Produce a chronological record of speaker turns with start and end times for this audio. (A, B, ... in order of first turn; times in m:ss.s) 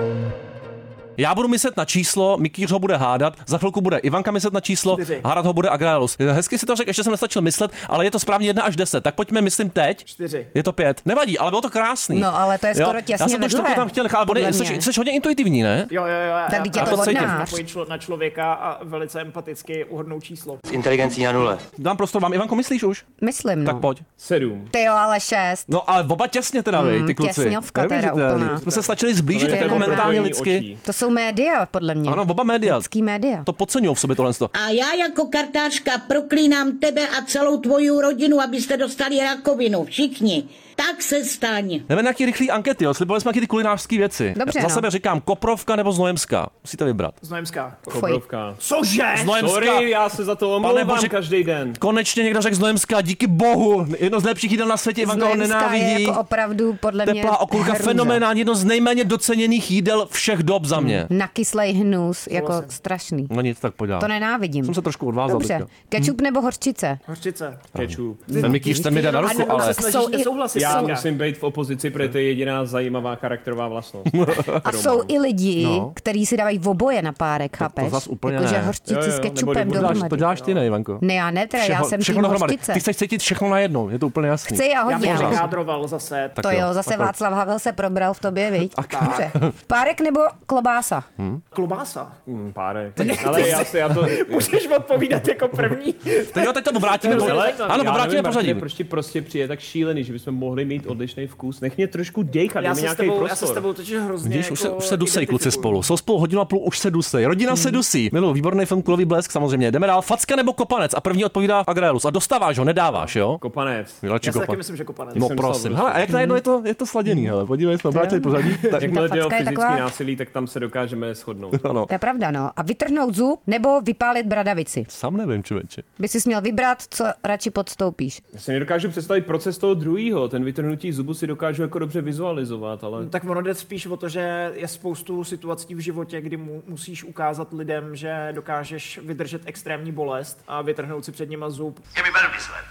0:01.2-0:15.9 A
0:04.9-0:05.2 B
0:10.0-0:10.5 B
0:12.1-0:14.8 C
0:15.9-0:20.6 B
0:16.5-0:17.6 C
0:16.7-0:17.4 A
0:21.8-0:23.0 A
0:23.2-0:23.8 C
0:23.6-0:24.0 A
0:24.2-0:24.7 D
0:24.7-0:25.7 C
0:25.7-0:30.6 A
0:26.7-0:28.6 C
0:28.4-0:28.9 B
0:29.3-0:30.8 D
0:29.4-0:30.3 C
0:30.8-0:33.5 C
0:32.0-0:32.9 A
0:33.4-0:34.5 A
0:34.5-0:41.8 E
0:41.9-0:47.1 A
0:44.4-0:44.8 C
0:47.2-0:47.8 B
0:47.9-0:48.6 D
0:47.9-0:48.2 C
0:48.6-0:49.4 B
0:49.1-0:49.9 A
0:49.4-0:51.8 D
0:50.6-0:51.2 A
0:51.7-0:56.2 A
0:55.0-0:58.2 C
0:57.0-1:01.1 A
1:00.8-1:03.3 C
1:02.3-1:02.7 B
1:03.3-1:04.1 A
1:04.0-1:07.0 C
1:04.6-1:06.1 A
1:07.1-1:07.6 B
1:07.7-1:08.4 D
1:07.7-1:09.8 A
1:08.3-1:11.1 B
1:08.3-1:10.9 C
1:10.5-1:15.1 D
1:14.1-1:14.6 A
1:14.6-1:20.3 C
1:15.6-1:15.9 A
1:17.6-1:18.7 A
1:18.9-1:20.1 D
1:19.7-1:21.0 A
1:21.0-1:22.8 C
1:21.6-1:25.5 A
1:24.5-1:25.5 C
1:24.8-1:26.4 B
1:26.4-1:27.1 A
1:26.4-1:31.0 C
1:28.7-1:29.5 A
1:28.9-1:29.2 B
1:31.5-1:32.1 B
1:32.3-1:34.5 D
1:33.0-1:38.0 B
1:33.0-1:33.6 A
1:36.3-1:38.6 A
1:37.0-1:43.6 D
1:42.6-1:45.8 B
1:44.2-1:53.4 A
1:47.5-1:47.8 C
1:53.4-1:54.0 D
1:54.0-1:54.6 A
1:54.2-1:55.3 B
1:55.1-1:58.9 A
1:55.1-1:56.1 D
1:56.1-1:56.4 C
1:58.0-1:58.8 B
1:58.8-2:01.6 D
1:58.8-1:59.8 C
2:01.5-2:01.9 A
2:01.9-2:04.9 C
2:04.9-2:05.8 A
2:06.0-2:08.2 C
2:08.3-2:13.1 D
2:13.0-2:21.8 B